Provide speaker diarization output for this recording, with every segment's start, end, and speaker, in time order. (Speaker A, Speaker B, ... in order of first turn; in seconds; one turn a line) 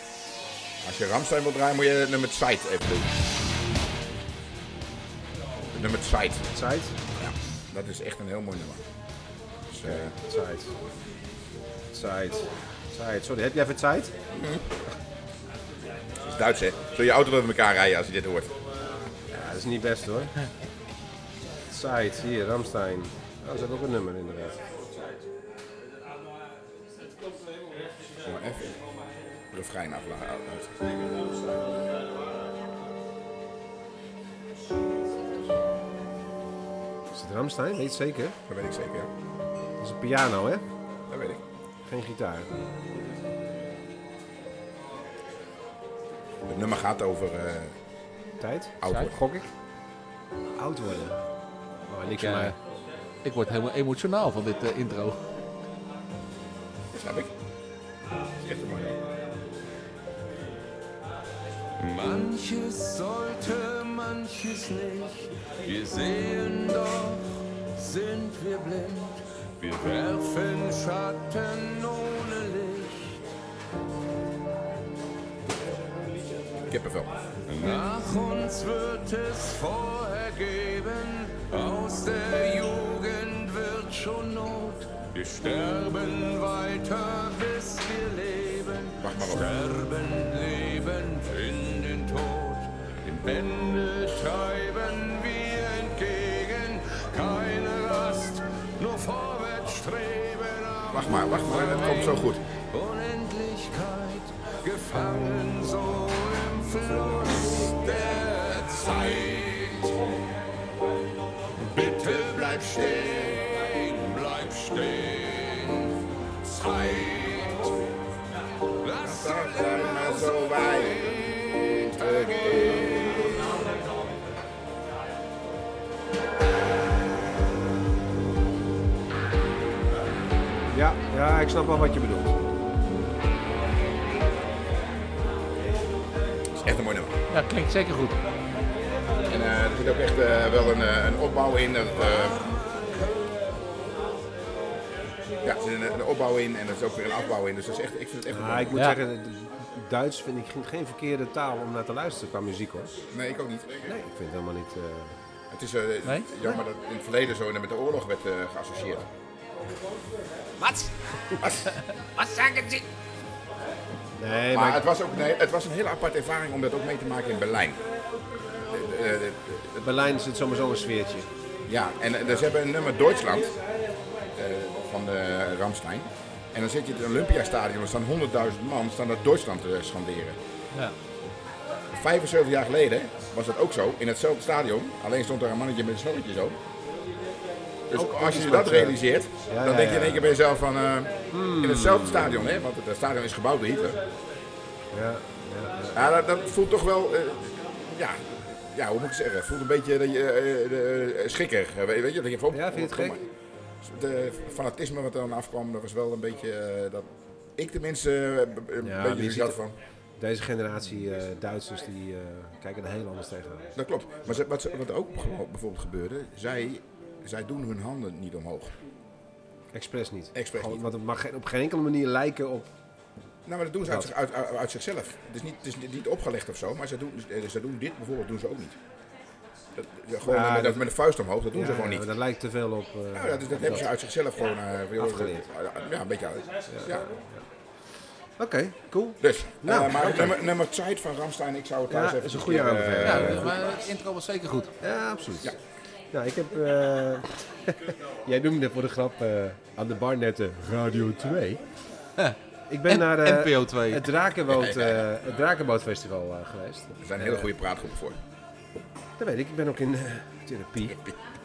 Speaker A: 0.8-3.1
Speaker A: 5.7-6.5
Speaker B: 6.5-7.0
Speaker A: 7.2-8.8
Speaker A: 9.7-10.1
Speaker B: 9.8-10.7
Speaker B: 11.9-14.1
Speaker A: 14.3-14.7
Speaker A: 16.2-18.6
Speaker B: 19.3-20.3
Speaker B: 21.7-24.6
Speaker A: 28.1-28.8
Speaker A: 29.5-31.0
Speaker B: 37.1-38.4
Speaker A: 38.5-39.1
Speaker B: 39.8-40.6
Speaker A: 41.1-41.4
Speaker B: 41.9-42.5
Speaker A: 46.5-47.8
Speaker B: 48.4-49.5
Speaker A: 48.8-49.2
Speaker B: 50.6-51.2
Speaker B: 51.9-52.5
Speaker C: 52.2-52.5
Speaker C: 53.2-55.2
Speaker A: 56.9-57.3
Speaker A: 58.4-59.0
Speaker D: 61.8-73.2
Speaker A: 76.7-77.2
Speaker D: 77.5-110.1
Speaker A: 89.0-89.5
Speaker A: 100.9-102.4
Speaker A: 111.6-113.4
Speaker D: 111.7-117.8
Speaker D: 118.8-123.6
Speaker A: 119.0-123.5
Speaker B: 130.7-132.4
Speaker A: 136.6-137.2
Speaker C: 137.3-138.2
Speaker A: 139.3-142.5
Speaker D: 141.9-143.5
Speaker A: 145.4-148.9
Speaker B: 148.3-153.0
Speaker A: 153.1-153.9
Speaker B: 153.8-155.2
Speaker A: 155.5-159.1
Speaker C: 156.1-156.5
Speaker B: 160.6-161.4
Speaker A: 161.4-161.8
Speaker C: 162.2-162.8
Speaker B: 164.2-164.9
Speaker A: 164.5-167.8
Speaker A: 168.6-169.9
Speaker B: 169.8-171.3
Speaker A: 171.7-173.6
Speaker A: 174.3-180.4
Speaker A: 181.9-186.6
Speaker A: 187.9-194.0
Speaker B: 187.9-190.3
Speaker B: 191.3-192.5
Speaker B: 194.9-196.1
Speaker A: 195.9-203.2
Speaker B: 202.5-203.2
Speaker A: 203.8-209.8
Speaker B: 208.8-209.6
Speaker B: 210.2-213.8
Speaker A: 213.8-218.8
Speaker B: 219.7-222.7
Speaker A: 220.3-220.9
Speaker A: 223.4-228.8
Speaker A: 229.8-232.1
Speaker B: 230.2-230.9
Speaker B: 231.5-233.9
Speaker A: 233.1-237.1
Speaker B: 235.0-235.5
Speaker B: 236.7-236.9
Speaker B: 238.4-240.4
Speaker A: 239.2-243.7
Speaker B: 241.9-243.6
Speaker C: 243.0-244.7
Speaker B: 244.8-245.5
Speaker B: 246.1-251.6
Speaker B: 252.7-257.5
Speaker C: 252.9-254.1
Speaker A: 254.5-255.1
Speaker A: 257.0-258.2
Speaker B: 259.2-261.0